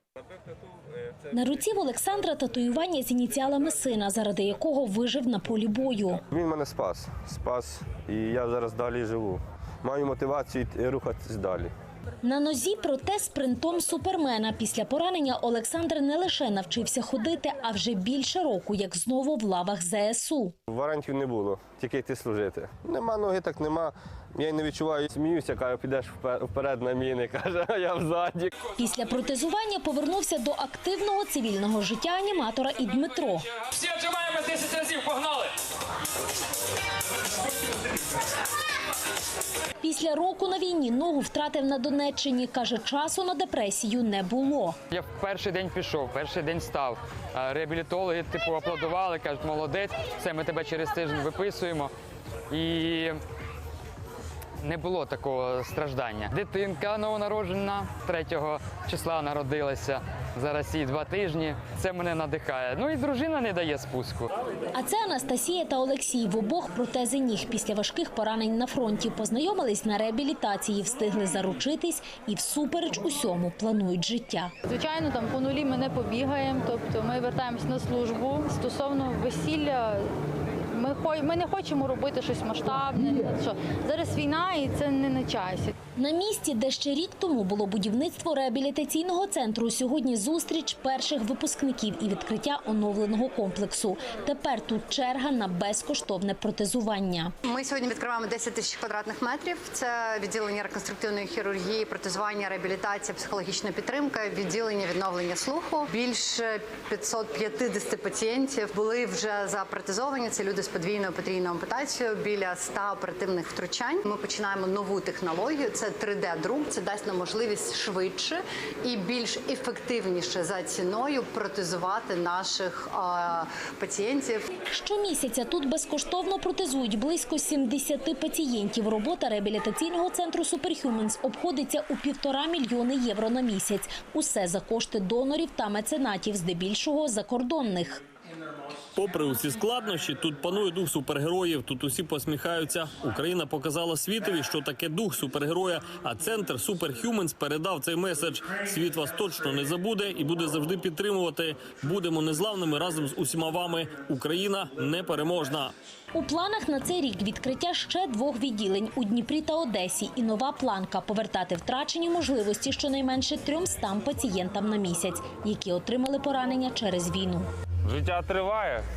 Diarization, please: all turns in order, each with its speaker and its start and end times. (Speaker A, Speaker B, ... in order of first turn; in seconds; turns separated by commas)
Speaker A: 1.3-6.2, Speaker B: 6.3-11.7, Speaker A: 12.2-20.6, Speaker B: 20.7-28.5, Speaker A: 28.8-33.5, Speaker C: 33.6-35.5, Speaker A: 39.8-44.8, Speaker C: 44.9-51.9, Speaker C: 52.5-53.2, Speaker C: 54.6-64.3, Speaker A: 64.8-74.5, Speaker D: 74.7-80.1, Speaker D: 80.7-85.7, Speaker A: 86.0-97.3, Speaker E: 97.5-124.5, Speaker A: 124.7-138.0, Speaker F: 138.9-155.7, Speaker A: 156.1-167.5, Speaker C: 167.9-168.8